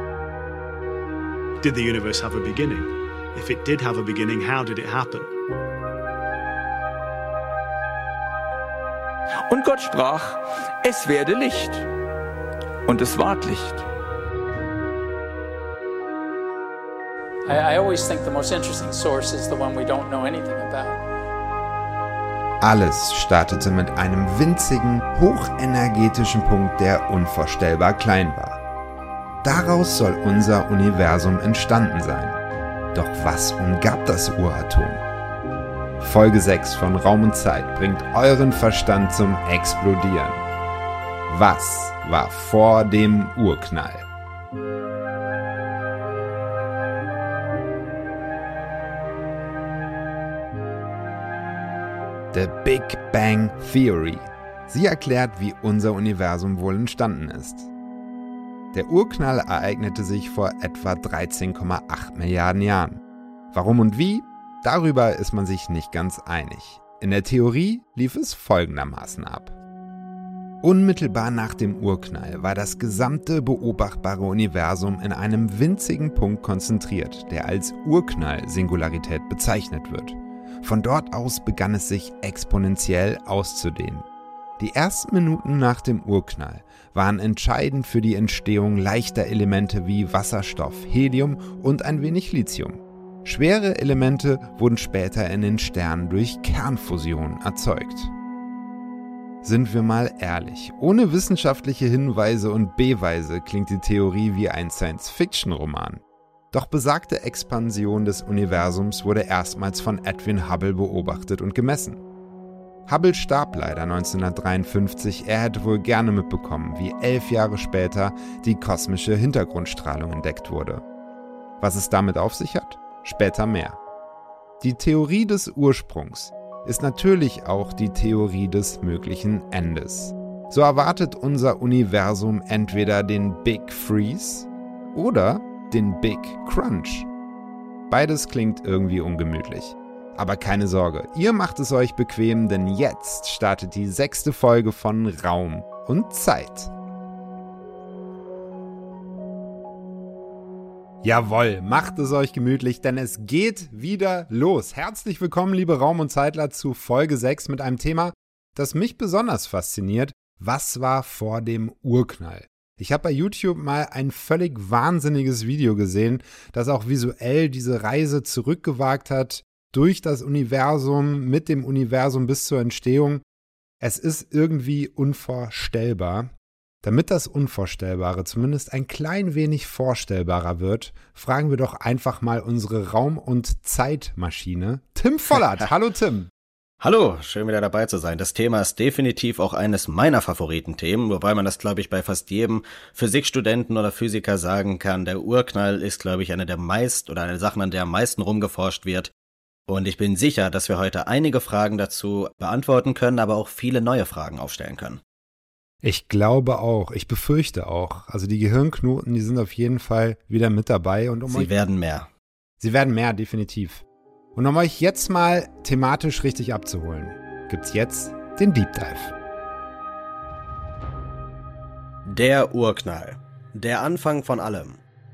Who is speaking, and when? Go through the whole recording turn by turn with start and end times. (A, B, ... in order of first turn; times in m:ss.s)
0:01.6-0:05.3 A
0:09.5-0:11.9 B
0:12.9-0:13.8 B
0:17.5-0:21.0 C
0:22.6-0:28.6 D
0:29.4-0:32.4 D
0:32.9-0:35.0 D
0:36.0-0:40.4 D
0:41.3-0:44.1 D
0:52.3-0:57.7 D
0:58.7-1:09.6 D
1:10.6-1:24.1 D
1:24.6-1:38.1 D
1:39.4-1:52.0 D
1:52.9-2:00.8 D
2:01.6-2:03.8 D
2:04.6-2:17.1 D
2:17.9-2:26.7 D
2:31.0-2:53.2 D
2:53.8-2:56.3 D
2:56.8-3:06.3 D
3:06.8-3:19.1 E
3:19.7-3:25.0 E
3:25.8-3:31.5 D
3:31.3-3:32.1 E
3:32.6-3:39.1 D
3:42.1-3:44.8 E